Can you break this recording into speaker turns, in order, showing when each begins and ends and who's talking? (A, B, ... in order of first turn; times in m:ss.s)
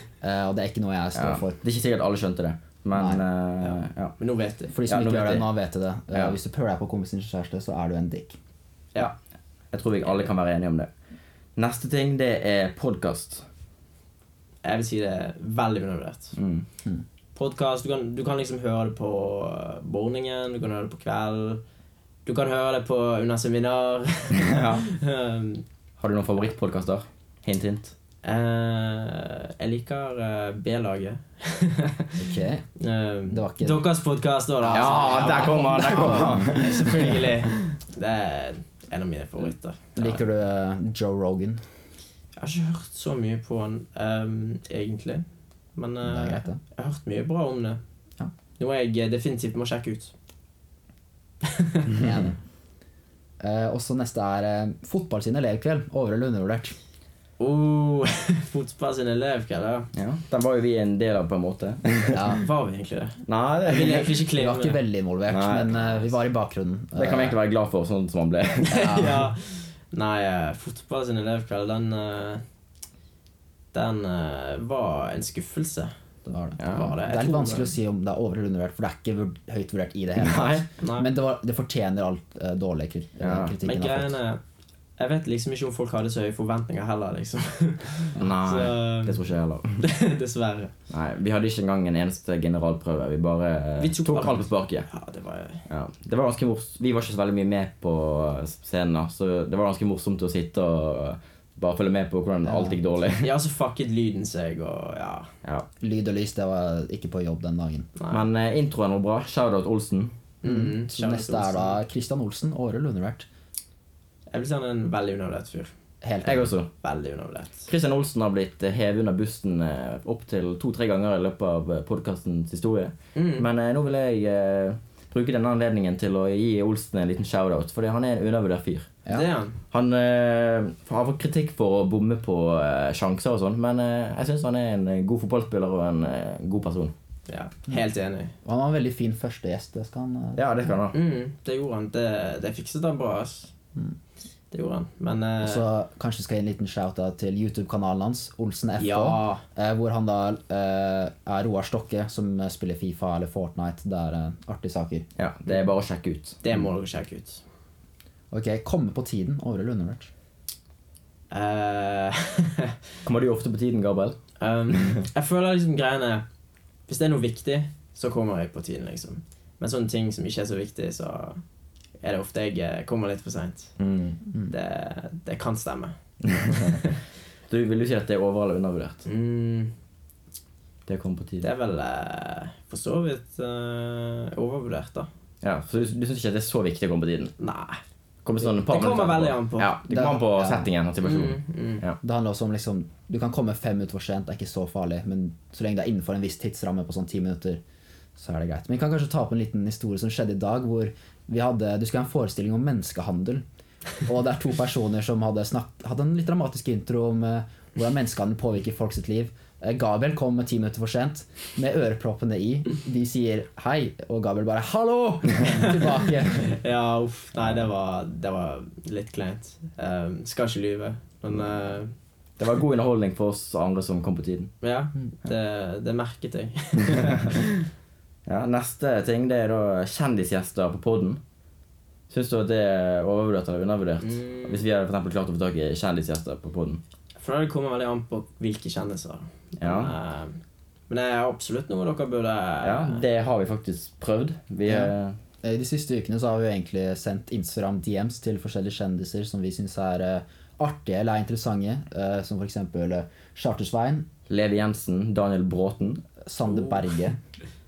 0:00.2-0:01.6 A
0:01.2-0:04.2 B
0:02.9-0:03.2 A
0:03.6-0:04.8 C
0:04.7-0:08.4 A
0:04.9-0:05.5 B
0:06.1-0:06.4 B
0:09.7-0:10.9 B
0:11.6-0:13.5 B
0:14.6-0:16.4 C
0:16.4-0:16.6 B
0:17.4-0:21.6 C
0:22.2-0:25.6 C
0:24.4-0:24.9 B
0:26.0-0:27.9 B
0:28.2-0:32.2 C
0:32.2-0:32.7 A
0:32.8-0:40.2 C
0:33.3-0:33.9 A
0:34.7-0:37.6 B
0:35.9-0:36.5 A
0:40.0-0:41.6 A
0:42.4-0:47.8 C
0:46.0-0:46.6 A
0:48.6-0:50.1 C
0:51.5-0:52.0 C
0:52.0-0:52.4 A
0:53.4-0:56.8 A
0:57.4-0:59.9 C
0:59.9-1:02.3 B
1:02.1-1:02.4 A
1:02.4-1:04.8 C
1:03.3-1:04.2 B
1:04.4-1:07.4 A
1:05.3-1:05.8 B
1:07.0-1:09.0 B
1:08.7-1:12.4 C
1:08.7-1:09.3 A
1:13.7-1:15.9 C
1:16.2-1:24.2 A
1:16.6-1:17.0 B
1:16.7-1:17.7 C
1:20.2-1:20.7 B
1:20.8-1:21.1 C
1:23.2-1:23.5 B
1:23.6-1:24.4 C
1:25.0-1:29.2 C
1:28.2-1:29.8 B
1:29.8-1:30.7 C
1:30.9-1:34.9 B
1:33.8-1:35.6 C
1:35.7-1:43.3 B
1:42.4-1:42.8 A
1:43.2-1:45.3 C
1:45.8-1:47.9 A
1:48.0-1:48.2 C
1:48.1-1:50.1 B
1:50.4-1:51.8 C
1:50.4-1:53.3 A
1:54.3-1:55.7 C
1:56.0-1:56.5 A
1:56.2-1:56.7 B
1:56.8-1:57.7 C
1:57.7-2:08.9 B
2:03.2-2:03.5 C
2:09.1-2:09.6 C
2:09.7-2:16.9 B
2:17.3-2:18.3 C
2:18.4-2:20.7 A
2:20.4-2:21.0 B
2:20.9-2:23.5 C
2:24.5-2:25.6 C
2:25.4-2:35.1 A
2:28.8-2:29.4 C
2:35.2-2:36.4 B
2:36.4-2:37.4 C
2:38.3-2:40.1 A
2:41.3-2:42.7 C
2:43.0-2:44.2 B
2:44.4-2:46.2 C
2:46.9-2:51.4 C
2:52.0-2:53.8 C
2:53.8-2:54.2 B
2:54.5-2:55.9 C
2:56.2-2:56.8 B
2:57.5-2:59.0 B
2:59.1-2:59.7 C
3:00.9-3:01.5 B
3:01.4-3:05.1 C
3:05.4-3:07.3 B
3:07.4-3:07.8 C
3:08.2-3:12.0 B
3:08.7-3:09.8 C
3:09.9-3:10.7 A
3:11.0-3:11.8 C
3:12.0-3:17.6 A
3:18.2-3:23.4 A
3:24.0-3:36.6 A
3:36.5-3:42.0 C
3:42.4-3:44.5 B
3:44.6-3:47.5 C
3:48.3-3:51.2 B
3:52.1-3:56.8 B
3:54.0-3:54.6 C
3:57.2-4:00.4 C
3:59.6-3:59.9 B
4:00.9-4:03.0 C
4:02.6-4:05.2 B
4:04.6-4:14.1 A
4:14.3-4:16.0 B
4:16.2-4:17.2 A